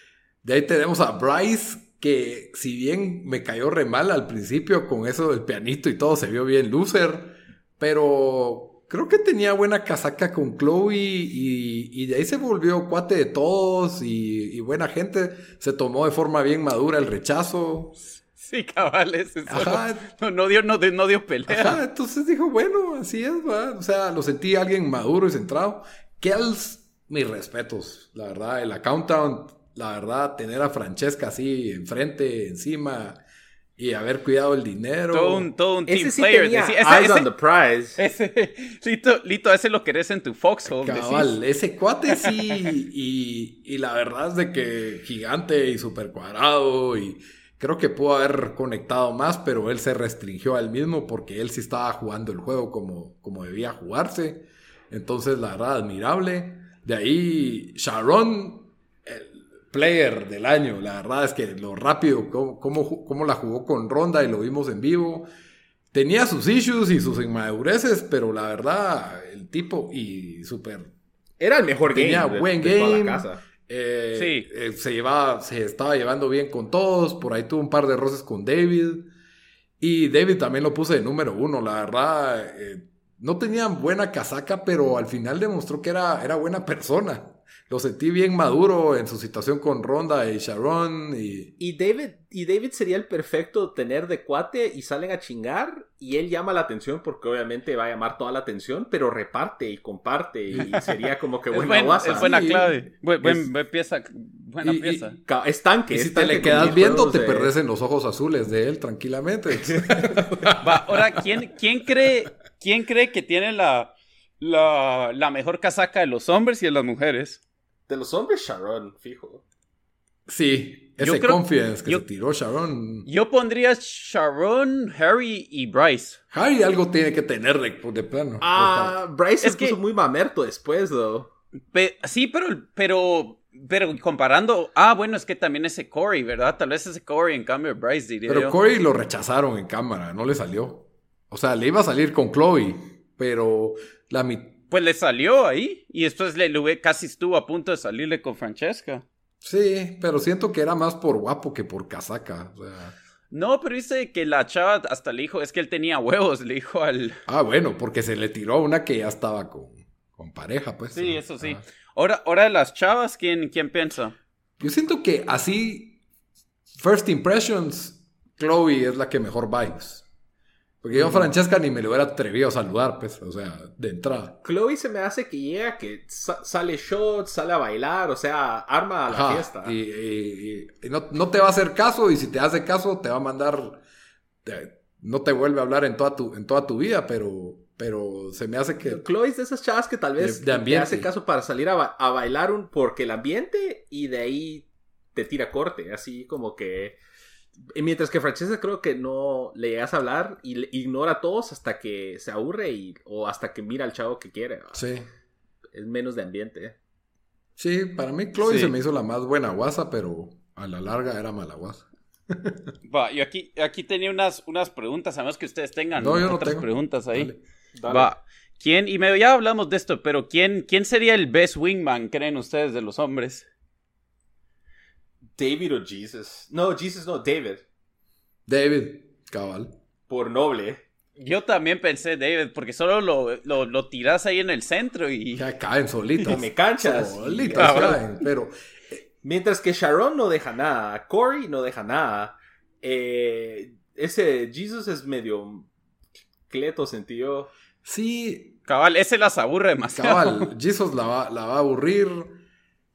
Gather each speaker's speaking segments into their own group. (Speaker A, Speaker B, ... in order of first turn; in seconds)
Speaker A: 0.4-18.0, 19.5-20.1, 21.5-33.2, 33.8-35.5, 40.7-65.3, 65.9-70.9, 71.9-79.1, 79.8-91.5, 102.1-103.5, 104.6-105.2, 105.9-111.2, 120.3-123.1, 126.3-129.0, 138.3-144.6, 149.4-152.9, 157.3-161.6, 164.6-166.0, 166.7-170.1, 170.8-174.4, 179.1-183.8, 184.4-189.0, 190.2-191.1, 204.7-205.1, 207.6-212.7, 216.0-217.4, 228.5-229.7, 235.4-239.0, 247.8-248.6, 250.0-252.4
Speaker B: 18.4-21.8, 35.1-37.3, 38.0-41.4, 42.1-42.6, 74.1-74.5, 101.5-105.2, 110.6-117.4, 121.0-122.0, 123.0-126.2, 129.4-129.8, 131.7-138.6, 144.7-149.1, 153.3-157.2, 160.9-164.1, 208.4-208.7, 212.8-217.3, 217.9-223.5, 231.2-235.4, 237.6-238.0, 248.7-250.5
Speaker C: 35.9-38.0, 71.4-73.4, 91.6-102.5, 105.3-107.5, 109.6-110.2, 117.9-119.4, 128.4-131.3, 170.9-171.3, 174.4-179.8, 188.8-197.0, 197.7-204.9, 205.7-206.8, 217.8-218.1, 225.4-227.6, 230.1-230.8, 236.3-238.0, 239.2-245.7, 246.5-247.5